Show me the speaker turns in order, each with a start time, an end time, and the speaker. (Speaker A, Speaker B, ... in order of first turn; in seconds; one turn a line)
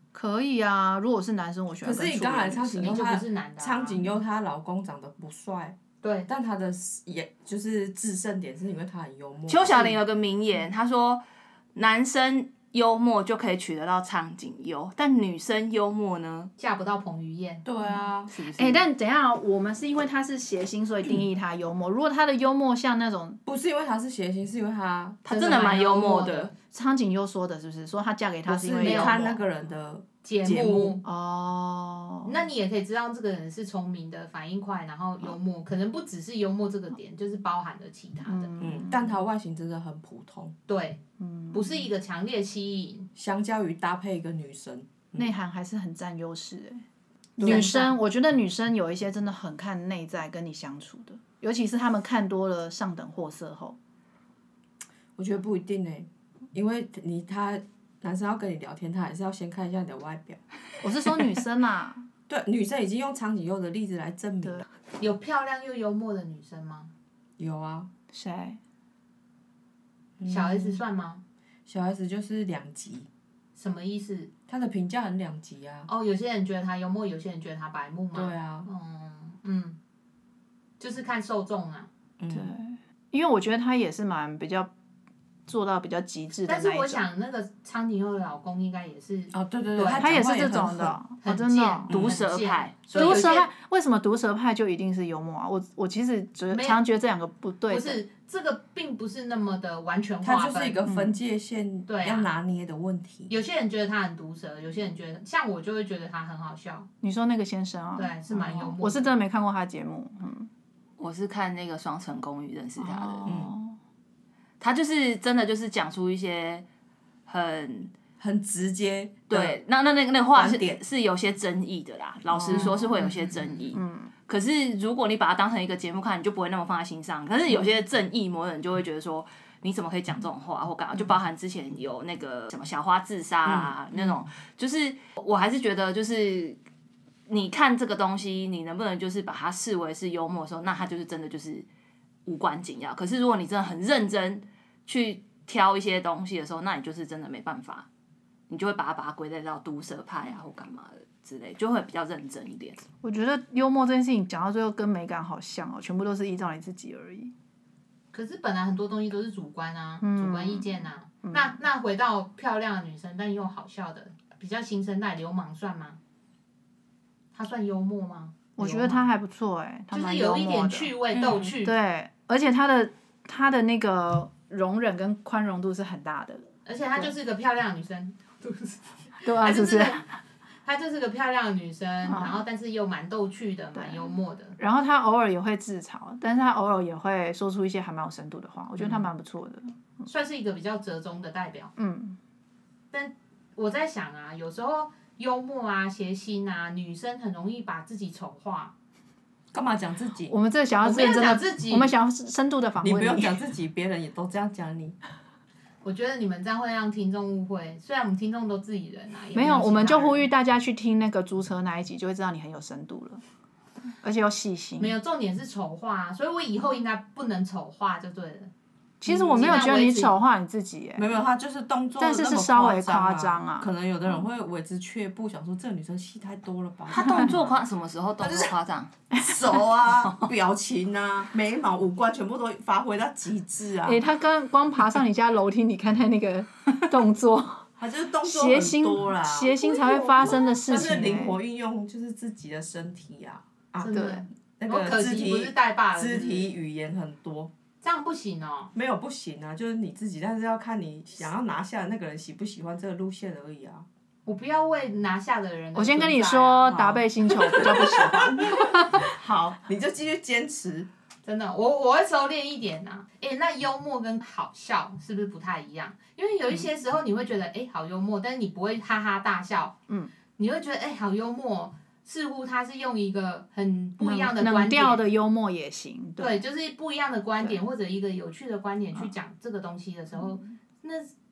Speaker A: 0.1-3.0
Speaker B: 1.8-9.9
Speaker C: 2.8-4.0
Speaker C: 6.0-6.3
Speaker D: 9.5-11.2
Speaker D: 11.7-16.5
Speaker C: 16.6-17.6
Speaker B: 17.6-18.3
Speaker C: 18.3-18.8
Speaker A: 18.5-23.4
Speaker B: 23.4-25.2
Speaker D: 25.2-26.5
Speaker C: 25.2-26.5
Speaker A: 26.7-29.3
Speaker B: 28.4-31.0
Speaker C: 28.8-29.2
Speaker D: 29.1-29.4
Speaker C: 30.2-31.0
Speaker A: 31.0-32.4
Speaker C: 32.2-38.5
Speaker A: 38.2-39.2
Speaker B: 38.6-40.5
Speaker C: 40.7-41.0
Speaker A: 41.2-41.8
Speaker C: 41.5-43.1
Speaker B: 43.1-45.3
Speaker A: 45.1-46.8
Speaker A: 47.4-53.8
Speaker C: 47.4-48.0
Speaker B: 55.1-60.4
Speaker A: 60.8-62.0
Speaker B: 62.3-64.6
Speaker C: 65.0-66.9
Speaker B: 67.4-67.9
Speaker A: 68.1-68.6
Speaker B: 70.2-70.8
Speaker C: 70.3-71.2
Speaker B: 71.7-73.1
Speaker C: 73.5-74.3
Speaker B: 74.5-75.9
Speaker C: 75.8-79.8
Speaker B: 78.1-78.7
Speaker C: 80.8-81.9
Speaker B: 82.2-82.5
Speaker A: 82.3-84.7
Speaker A: 85.5-87.0
Speaker C: 86.4-90.1
Speaker B: 89.3-91.0
Speaker A: 90.0-91.9
Speaker C: 91.2-93.5
Speaker B: 91.9-92.2
Speaker D: 91.9-93.2
Speaker A: 92.9-98.0
Speaker C: 96.5-96.8
Speaker C: 97.7-100.8
Speaker B: 100.2-103.3
Speaker A: 100.8-101.2
Speaker C: 101.9-102.3
Speaker C: 103.3-106.9
Speaker A: 107.0-110.5
Speaker C: 108.0-109.1
Speaker D: 111.0-113.3
Speaker A: 112.8-113.8
Speaker B: 113.2-113.5
Speaker D: 114.6-116.6
Speaker D: 117.3-117.9
Speaker B: 118.2-119.6
Speaker D: 119.3-136.6
Speaker B: 120.3-120.8
Speaker A: 122.3-122.9
Speaker B: 122.4-122.7
Speaker C: 122.5-123.5
Speaker A: 123.7-124.1
Speaker B: 133.5-133.7
Speaker D: 137.3-141.7
Speaker D: 142.2-147.9
Speaker D: 148.5-152.8
Speaker A: 153.0-157.3
Speaker C: 158.1-166.0
Speaker A: 160.0-160.7
Speaker A: 161.2-161.6
Speaker C: 167.3-169.1
Speaker A: 168.6-170.9
Speaker C: 169.9-171.8
Speaker D: 171.2-171.4
Speaker A: 171.6-176.4
Speaker C: 176.6-180.1
Speaker A: 179.2-180.0
Speaker C: 180.6-184.6
Speaker A: 182.1-182.4
Speaker A: 183.7-189.8
Speaker C: 190.1-191.7
Speaker A: 191.8-192.2
Speaker C: 192.9-198.7
Speaker B: 199.5-200.3
Speaker A: 200.3-203.4
Speaker C: 200.8-201.9
Speaker B: 202.8-204.9
Speaker C: 205.8-210.3
Speaker A: 209.3-213.2
Speaker A: 214.0-214.9
Speaker C: 214.8-218.5
Speaker A: 219.0-221.1
Speaker C: 219.1-220.2
Speaker B: 221.0-227.6
Speaker A: 222.0-223.7
Speaker D: 226.9-228.9
Speaker B: 228.2-228.5
Speaker B: 229.1-234.0
Speaker D: 229.9-230.3
Speaker A: 233.8-237.7
Speaker B: 237.8-239.5
Speaker A: 238.2-241.4
Speaker B: 240.2-247.5
Speaker C: 243.8-246.5
Speaker A: 243.9-244.2
Speaker C: 247.8-248.7
Speaker B: 248.7-253.8
Speaker C: 254.2-256.8
Speaker A: 255.7-259.1
Speaker B: 256.7-260.9
Speaker C: 261.2-269.8
Speaker C: 270.4-275.0
Speaker A: 274.0-276.4
Speaker C: 276.2-281.1
Speaker A: 280.1-280.5